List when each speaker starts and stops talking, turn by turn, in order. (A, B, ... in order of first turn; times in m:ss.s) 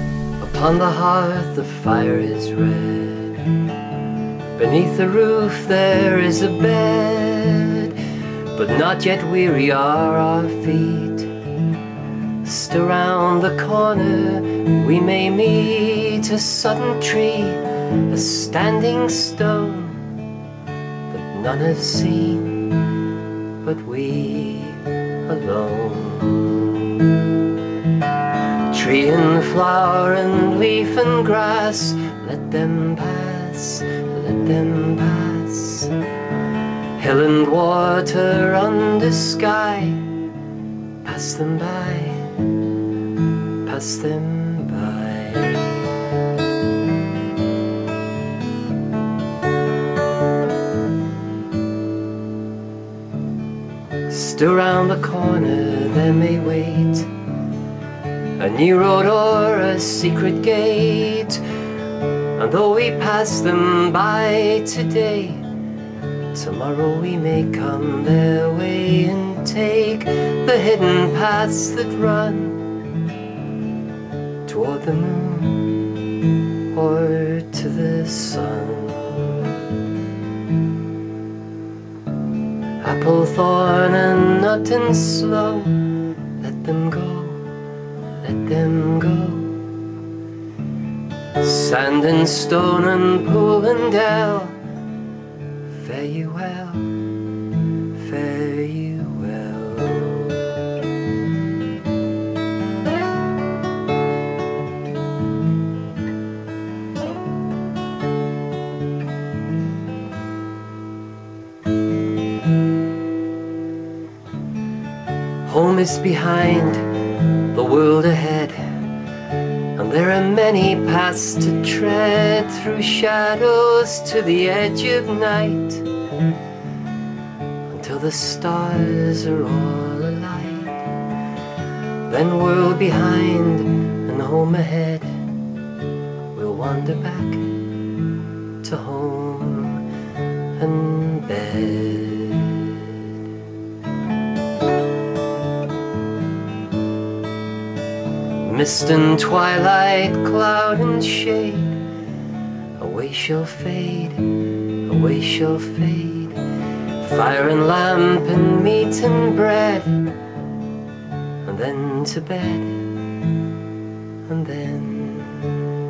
0:00.4-0:03.3 A
0:04.6-0:07.9 A
0:08.5-0:11.3 A
0:12.4-0:20.0 A
0:21.1-0:22.7 A
0:23.6-0:26.8 A
0:28.7-0:35.9 A
0:37.0-0:40.0 A
0:41.0-0:42.3 A
0:43.6-0:45.8 A
0:54.1-0:57.1 A
0:58.4-1:01.4 A
1:02.4-1:05.5 A
1:06.3-1:12.6 A
1:14.5-1:15.9 A
1:16.7-1:19.2 A
1:22.8-1:27.4 A
1:28.2-1:29.6 A
1:31.4-1:34.6 A
1:35.7-1:36.9 A
1:37.9-1:40.3 A
1:55.5-1:56.9 A
1:57.5-1:58.6 A
1:59.8-2:05.9 A
2:07.7-2:10.8 A
2:12.1-2:15.1 A
2:16.3-2:17.5 A
2:18.6-2:19.8 A
2:20.6-2:22.3 A
2:28.4-2:31.8 A
2:32.8-2:36.4 A
2:37.0-2:40.1 A
2:41.4-2:42.8 A
2:44.3-2:45.5 A